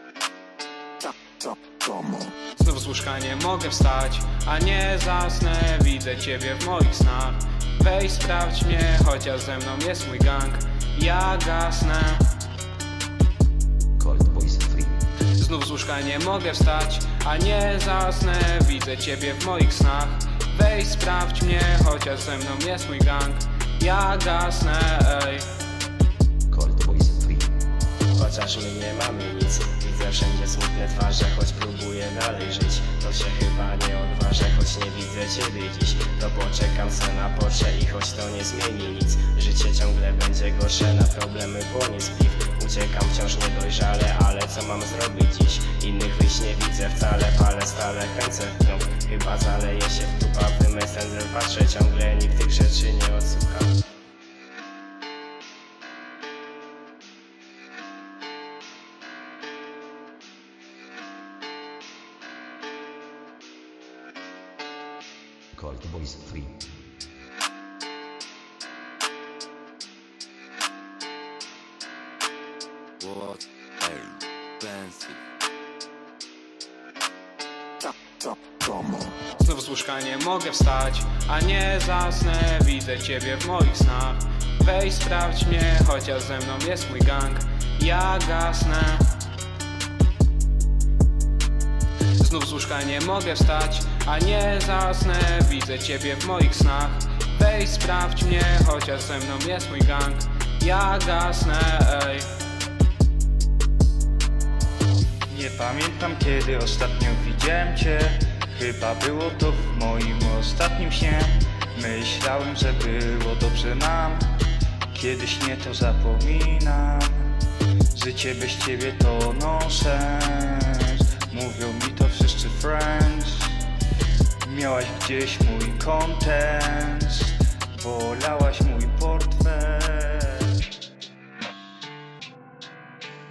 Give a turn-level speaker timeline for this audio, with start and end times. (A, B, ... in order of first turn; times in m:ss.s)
0:02.6-0:12.3 A
0:14.0-0:15.0 B
0:15.3-0:25.5 A
0:26.5-0:27.5 B
0:28.1-0:53.8 C
1:05.6-1:06.7 B
1:13.0-1:15.2 D
1:19.4-1:29.1 A
1:32.2-1:42.3 A
1:45.3-1:54.4 E
1:54.9-1:57.4 E
1:57.9-2:03.6 E
2:04.4-2:10.6 E